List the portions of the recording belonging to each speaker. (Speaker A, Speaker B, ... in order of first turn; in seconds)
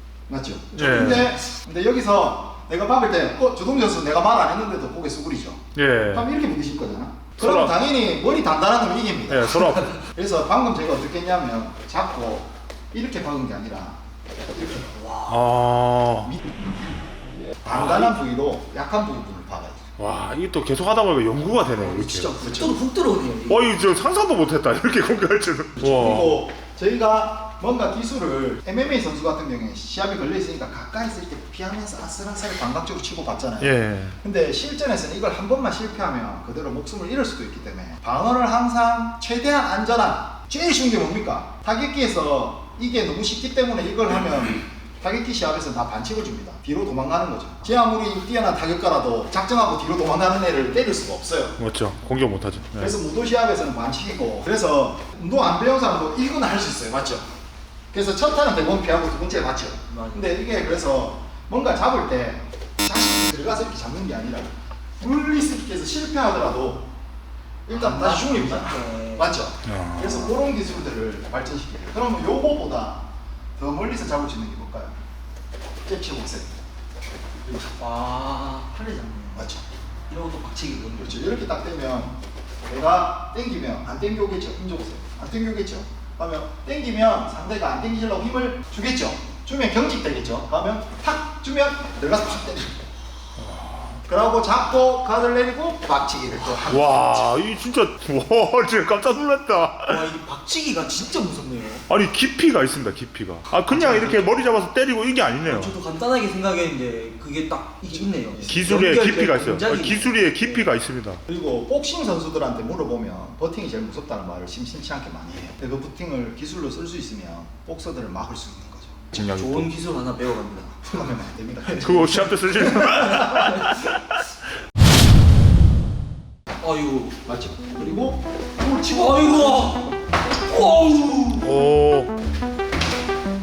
Speaker A: 0.3-14.0, 14.5-14.9, 16.2-16.5, 17.6-19.8, 22.0-22.8, 25.8-51.6, 52.8-57.2, 57.9-66.9, 67.7-73.0, 73.6-74.9, 75.8-76.6, 79.3-79.6, 80.9-92.8, 94.0-97.3, 103.8-104.1, 108.4-108.7, 111.2-119.3, 120.8-123.5, 127.2-129.8
Speaker B: 0.7-1.4, 5.7-6.3, 7.4-7.8, 9.3-9.9, 15.3-16.3, 20.0-22.3, 23.5-26.4, 33.6-34.2, 51.6-53.0, 69.7-70.1, 93.4-94.0, 96.6-100.1, 101.9-105.7, 108.5-111.2, 119.1-119.7, 121.8-124.2, 131.4-132.1
Speaker C: 0.8-1.4, 9.7-10.1, 14.9-15.4, 17.7-18.1, 21.7-23.7, 59.9-60.3, 67.7-69.4, 70.0-70.4, 77.8-79.5, 80.1-81.5, 99.9-101.9, 103.7-104.4, 105.4-110.7, 119.2-121.2, 121.7-123.8, 126.6-127.2, 128.8-131.6